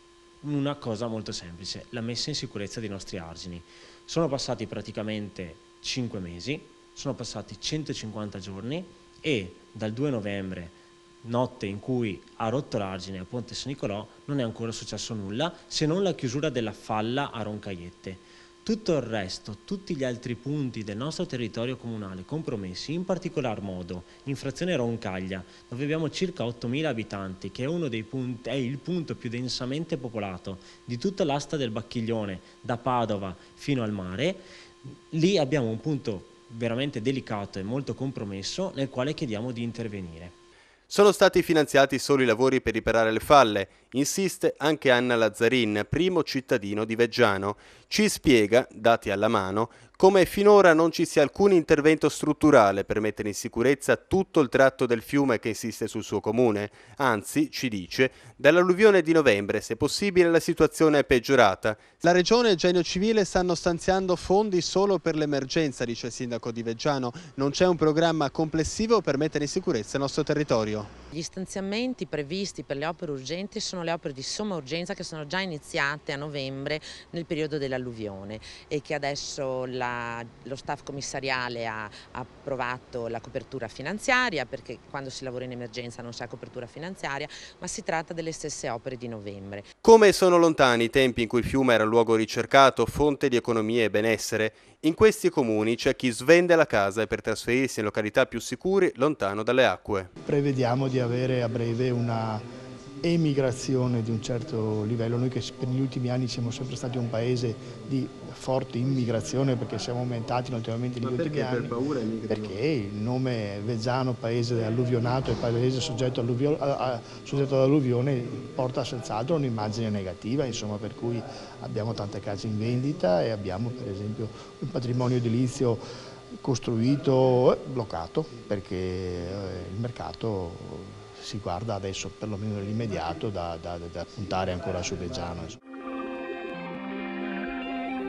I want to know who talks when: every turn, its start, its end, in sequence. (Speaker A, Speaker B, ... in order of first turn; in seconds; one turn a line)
Speaker A: 0.4-34.4
Speaker A: 35.1-40.3
Speaker B: 40.9-70.9
Speaker C: 71.1-89.7
Speaker B: 89.8-100.1
Speaker D: 100.2-102.4
Speaker D: 103.0-111.8
Speaker B: 111.0-112.6
Speaker D: 112.3-125.8
Speaker D: 126.4-135.6